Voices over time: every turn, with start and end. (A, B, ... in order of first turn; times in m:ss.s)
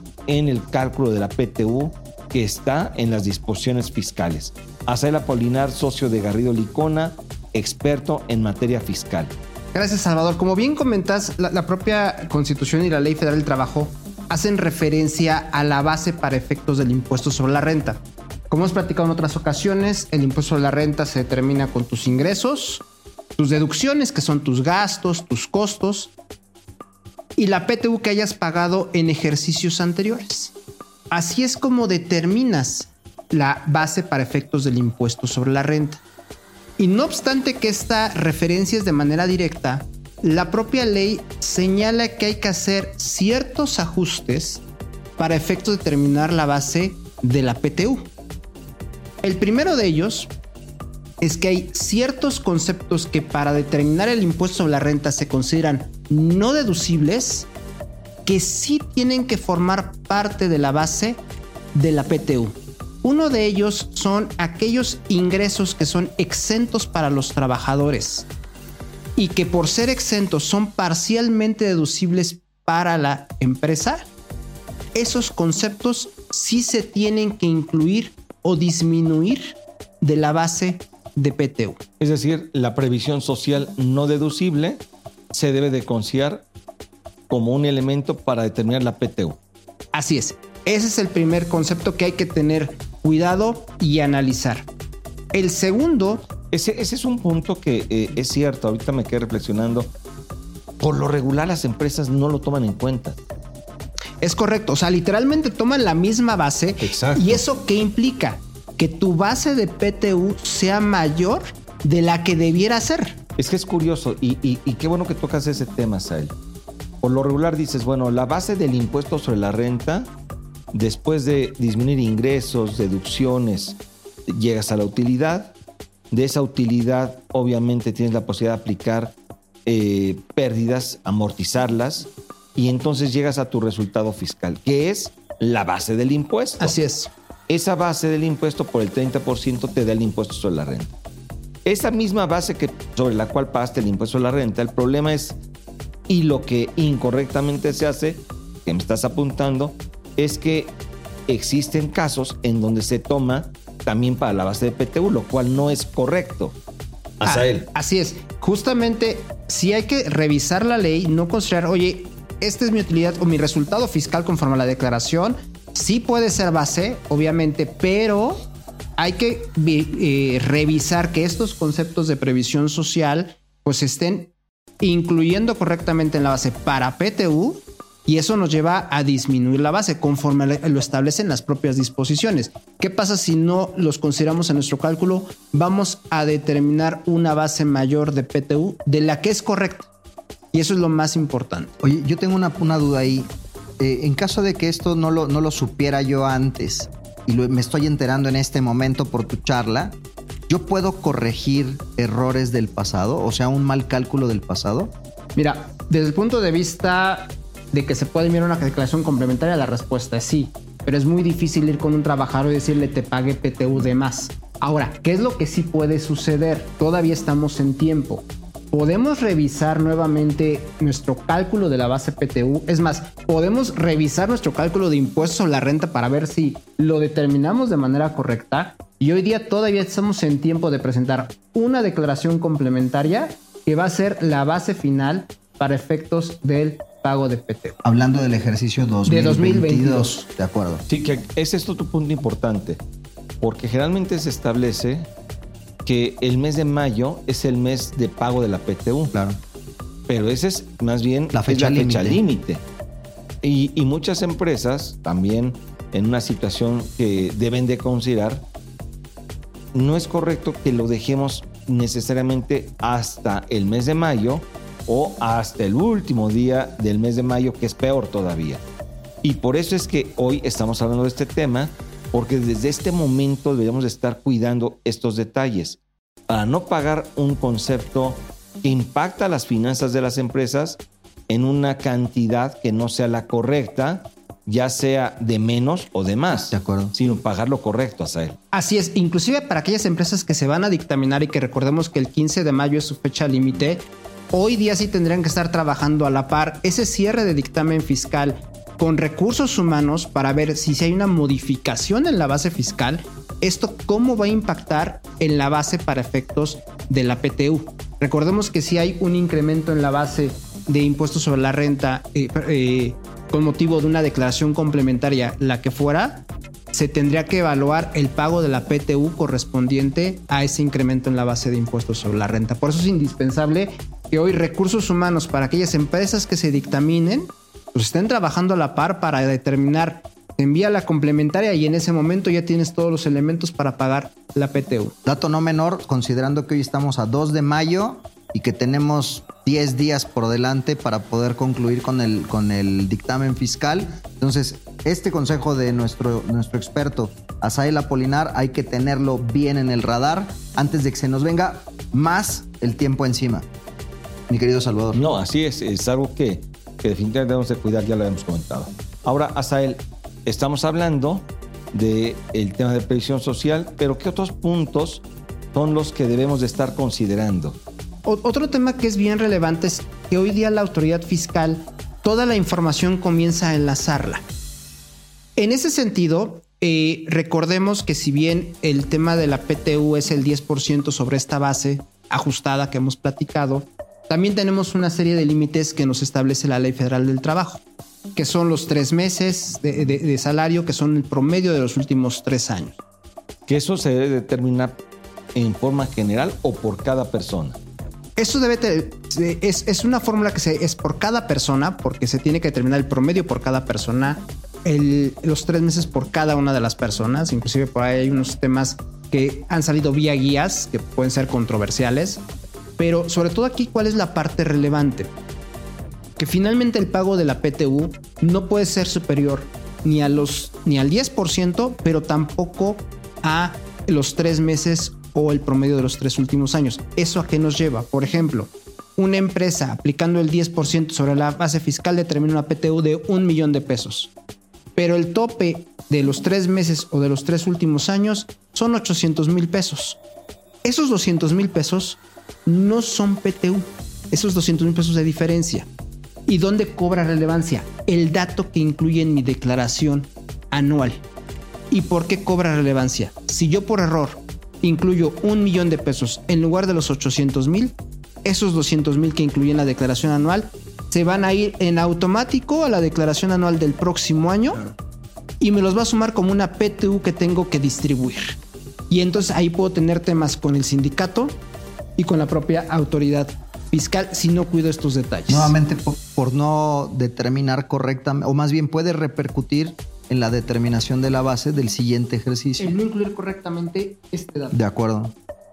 0:00.3-0:09.3 A
0:09.7-0:22.8 B
0:23.4-0:26.1 B
0:27.4-0:30.5 B
0:31.1-0:36.0 B
0:36.8-0:44.6 B
0:45.2-0:48.1 B
0:49.2-0:50.3 B
0:51.2-0:57.5 B
0:58.2-1:01.2 B
1:01.7-1:08.3 B
1:09.2-1:14.0 B
1:14.9-1:21.8 B
1:22.0-1:26.4 A
1:27.3-1:29.4 A
1:29.9-1:34.6 B
1:35.3-1:36.3 B
1:36.5-1:39.9 A
1:40.8-1:43.2 A
1:44.2-1:53.2 B
1:46.8-1:47.4 A
1:53.4-1:56.3 A
1:57.0-2:00.1 A
2:00.7-2:03.8 A
2:04.3-2:05.5 A
2:06.1-2:16.8 A
2:16.6-2:17.1 B
2:17.5-2:20.9 A
2:21.6-2:25.4 A
2:26.1-2:30.7 A
2:31.3-2:36.6 A
2:37.2-2:37.7 A
2:37.2-3:09.9 B
3:10.5-3:11.7 B
3:11.8-3:19.9 C
3:20.5-3:24.9 C
3:25.4-3:57.8 B
3:57.8-4:00.8 C
3:59.0-4:00.1 B
4:00.9-4:02.8 A
4:03.4-4:05.1 A
4:05.8-4:09.1 A
4:09.1-4:09.4 C
4:10.1-4:12.6 A
4:11.3-4:12.2 C
4:13.4-4:18.4 A
4:19.7-4:28.6 A
4:29.2-4:48.4 A
4:46.3-4:46.9 C
4:48.5-5:34.9 B
5:35.0-5:53.5 C
5:54.3-5:55.0 C
5:54.9-6:07.6 A
6:08.0-6:14.2 B
6:15.4-6:27.6 B
6:28.1-6:32.8 B
6:33.5-6:34.8 A
6:35.3-6:37.6 A
6:38.2-6:52.2 B
6:52.8-6:55.1 B
6:56.2-7:14.1 B
7:14.8-7:20.0 B
7:20.6-7:25.7 B
7:26.3-7:31.0 B
7:31.7-7:44.7 B
7:45.4-7:48.4 B
7:48.9-7:51.4 B
7:52.0-7:55.5 B
7:55.3-8:02.8 C
8:02.6-8:04.5 B
8:04.5-8:05.1 C